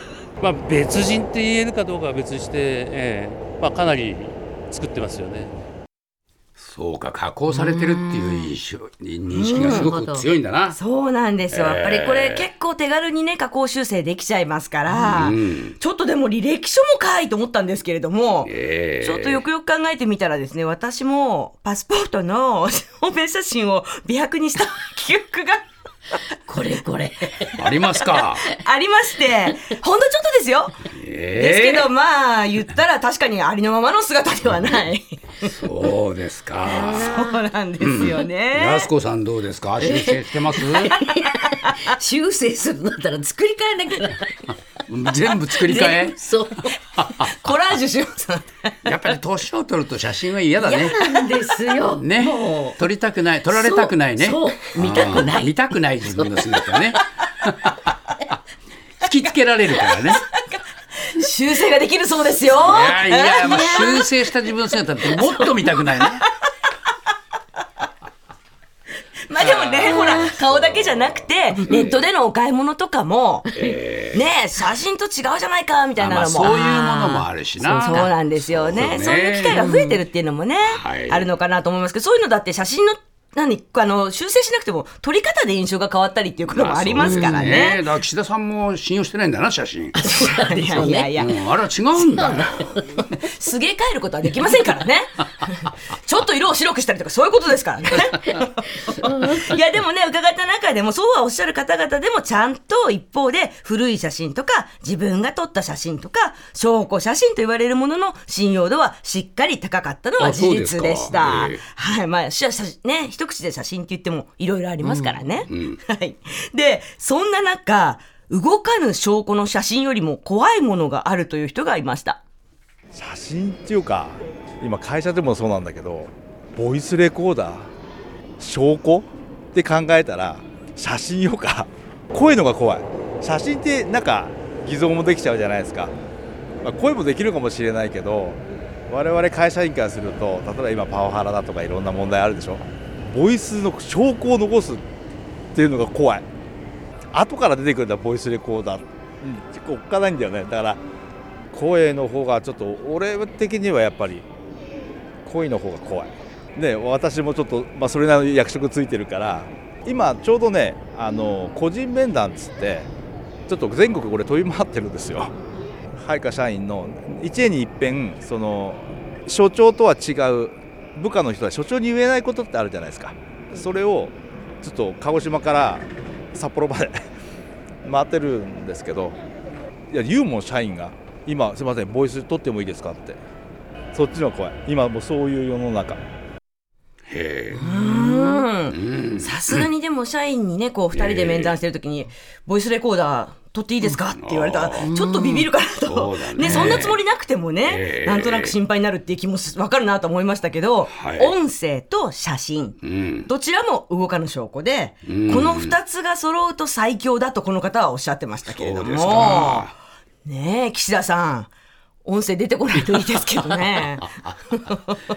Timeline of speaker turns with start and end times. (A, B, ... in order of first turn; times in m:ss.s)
0:00.4-0:05.5 A
0:06.6-0:10.8 B
0:07.6-0:08.4 C
0:09.4-0:09.9 D
0:09.5-0:10.2 C
0:10.7-0:25.7 D
0:11.5-0:12.5 B
0:15.0-0:15.8 B
0:18.4-0:19.4 B
0:26.5-0:28.1 C
0:27.6-0:28.4 B
0:28.4-0:30.7 D
0:30.9-0:31.9 B
0:31.4-0:35.5 D
0:35.6-0:37.1 B
0:36.7-0:38.9 D
0:36.8-0:37.4 C
0:37.8-0:40.9 B
0:39.9-0:44.2 C
0:44.9-0:46.2 B
0:45.6-0:46.8 C
0:47.2-0:49.0 D
0:48.8-0:51.3 B
0:50.7-0:52.7 C
0:52.0-0:54.4 B
0:53.6-0:56.7 C
0:54.8-0:55.3 D
0:55.0-0:57.0 B
0:59.1-1:00.2 B
1:00.0-1:04.0 D
1:02.6-1:06.2 B
1:03.2-1:03.8 C
1:09.3-1:13.5 D
1:09.6-1:11.2 B
1:10.0-1:10.3 C
1:13.5-1:14.2 B
1:14.1-1:16.6 D
1:16.0-1:19.6 B
1:16.4-1:18.3 C
1:17.8-1:27.8 D
1:18.9-1:20.0 C
1:20.7-1:21.3 B
1:26.5-1:30.0 B
1:27.0-1:27.6 C
1:30.0-1:31.2 C
1:30.1-1:31.3 D
1:30.8-1:32.5 B
1:33.2-2:02.2 D
1:50.2-1:51.6 B
1:55.5-1:55.8 B
2:02.9-2:07.7 E
2:08.4-2:15.9 E
2:16.6-2:24.8 E
2:25.5-2:26.2 E
2:27.1-2:30.8 E
2:31.5-2:34.2 E
2:35.2-2:42.9 E
2:43.5-2:45.3 E
2:46.0-2:57.0 E
2:57.8-2:59.2 E
2:59.9-3:03.2 E
3:03.9-3:06.0 E
3:07.1-3:08.0 B
3:07.6-3:29.7 D
3:08.7-3:09.6 B
3:10.9-3:11.5 B
3:14.1-3:14.9 B
3:14.9-3:15.7 C
3:15.7-3:17.0 B
3:17.7-3:18.5 B
3:20.9-3:21.3 B
3:22.8-3:23.3 B
3:25.1-3:25.7 B
3:28.5-3:29.7 B
3:30.2-3:31.5 D
3:32.0-3:35.0 D